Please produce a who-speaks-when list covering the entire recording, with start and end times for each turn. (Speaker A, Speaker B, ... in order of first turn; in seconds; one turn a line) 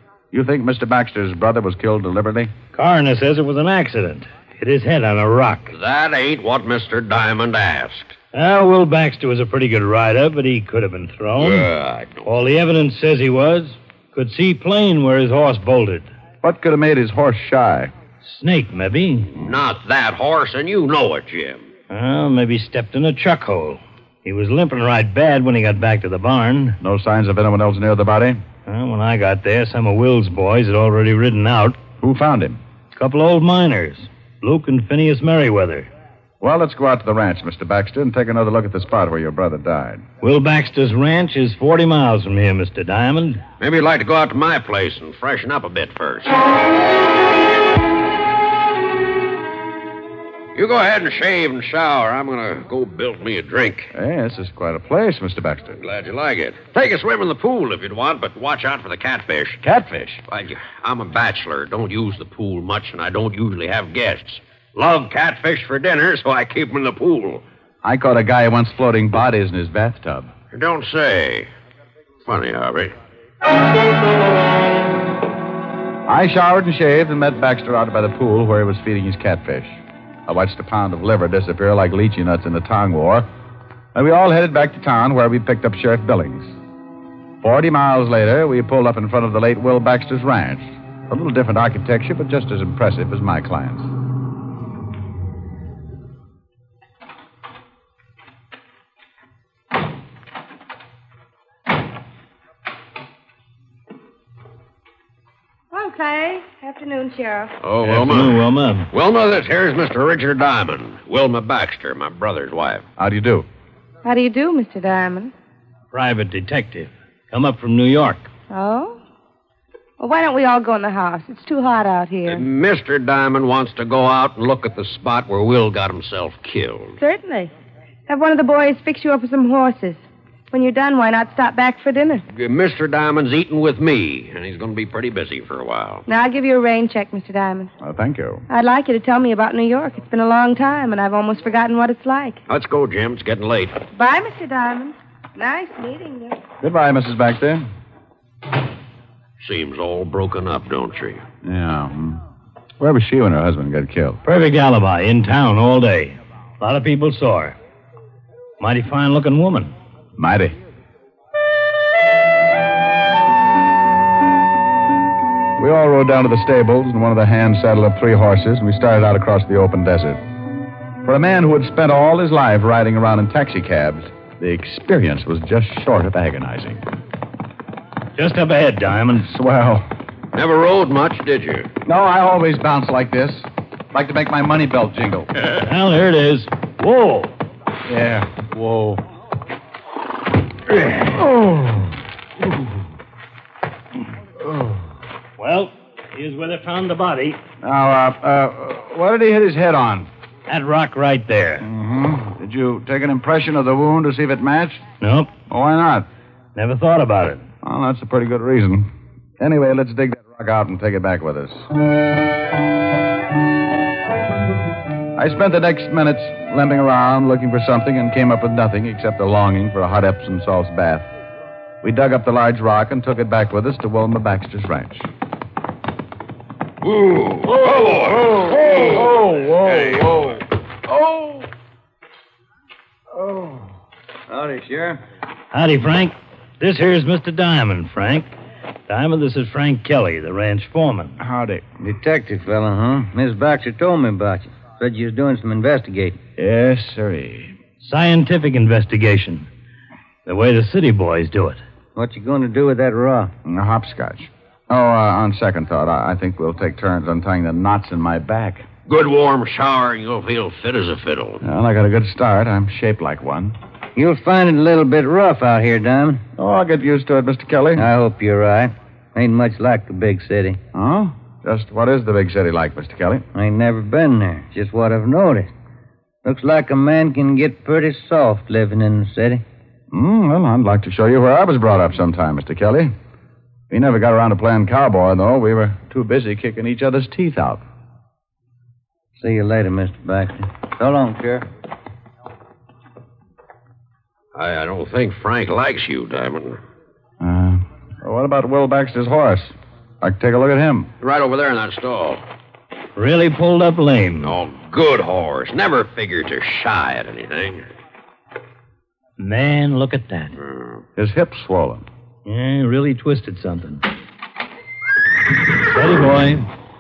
Speaker A: 0.3-2.5
Speaker B: 2.7-5.7
Speaker C: 5.7-8.2
Speaker B: 8.3-11.7
Speaker C: 11.4-12.3
Speaker B: 12.2-16.1
Speaker A: 16.4-17.9
Speaker B: 18.2-19.3
Speaker C: 19.4-21.7
Speaker B: 21.9-26.8
Speaker A: 26.8-28.4
Speaker B: 28.7-31.8
Speaker A: 32.0-32.6
Speaker B: 33.0-35.9
Speaker A: 36.4-40.1
Speaker B: 40.2-43.4
Speaker C: 43.6-46.3
Speaker C: 50.5-53.9
Speaker A: 53.9-55.8
Speaker C: 55.8-59.6
Speaker A: 59.6-60.2
Speaker C: 60.3-67.4
Speaker A: 67.8-70.3
Speaker C: 70.5-71.5
Speaker C: 72.2-72.9
Speaker A: 76.1-83.3
Speaker A: 83.9-86.6
Speaker A: 87.4-93.9
Speaker D: 105.7-107.5
Speaker C: 107.6-112.8
Speaker B: 107.9-108.9
Speaker A: 113.0-113.5
Speaker D: 114.0-115.3
Speaker B: 115.9-118.3
Speaker D: 118.5-119.0
Speaker D: 120.0-122.5
Speaker C: 122.3-127.0
Speaker D: 127.0-127.5
Speaker D: 128.1-132.2
Speaker C: 132.3-136.0
Speaker D: 136.1-137.7
Speaker A: 137.8-138.4
Speaker D: 138.5-142.4
Speaker C: 142.5-143.8
Speaker D: 143.9-146.4
Speaker A: 146.6-147.7
Speaker C: 149.4-151.2
Speaker A: 151.4-152.2
Speaker A: 152.8-154.2
Speaker B: 154.3-157.6
Speaker B: 158.6-159.7
Speaker A: 160.2-160.6
Speaker A: 165.6-170.2
Speaker A: 171.0-176.8
Speaker B: 178.2-179.3
Speaker A: 179.2-179.9
Speaker C: 180.3-181.7
Speaker A: 181.8-185.3
Speaker B: 185.6-187.3
Speaker A: 187.9-189.0
Speaker A: 191.2-191.9
Speaker B: 195.4-197.4
Speaker A: 197.6-200.1
Speaker B: 200.5-201.7
Speaker A: 201.6-204.9
Speaker B: 205.0-205.3
Speaker A: 205.5-206.1
Speaker B: 206.6-207.4
Speaker A: 207.6-211.7
Speaker A: 215.2-221.1
Speaker A: 221.8-225.1
Speaker C: 226.8-230.4
Speaker A: 228.2-230.3
Speaker E: 228.7-229.3
Speaker E: 233.2-233.6
Speaker E: 234.3-235.0
Speaker B: 235.5-238.3
Speaker B: 238.9-241.2
Speaker A: 241.2-241.7
Speaker E: 241.8-246.2
Speaker A: 246.4-247.6
Speaker B: 247.8-249.5
Speaker B: 250.3-251.6
Speaker E: 251.9-253.3
Speaker A: 253.4-258.7
Speaker C: 258.9-261.4
Speaker A: 261.4-263.6
Speaker E: 264.0-266.2
Speaker A: 266.4-267.9
Speaker E: 267.8-270.6
Speaker A: 270.7-273.3
Speaker E: 273.3-275.5
Speaker E: 276.2-279.4
Speaker A: 279.9-282.9
Speaker A: 283.7-287.6
Speaker E: 289.2-291.4
Speaker C: 294.4-296.6
Speaker A: 297.2-300.9
Speaker C: 301.0-302.2
Speaker B: 303.0-304.4
Speaker C: 304.2-307.7
Speaker B: 309.2-310.3
Speaker C: 310.4-310.8
Speaker A: 311.0-311.9
Speaker B: 312.3-313.8
Speaker B: 315.5-316.5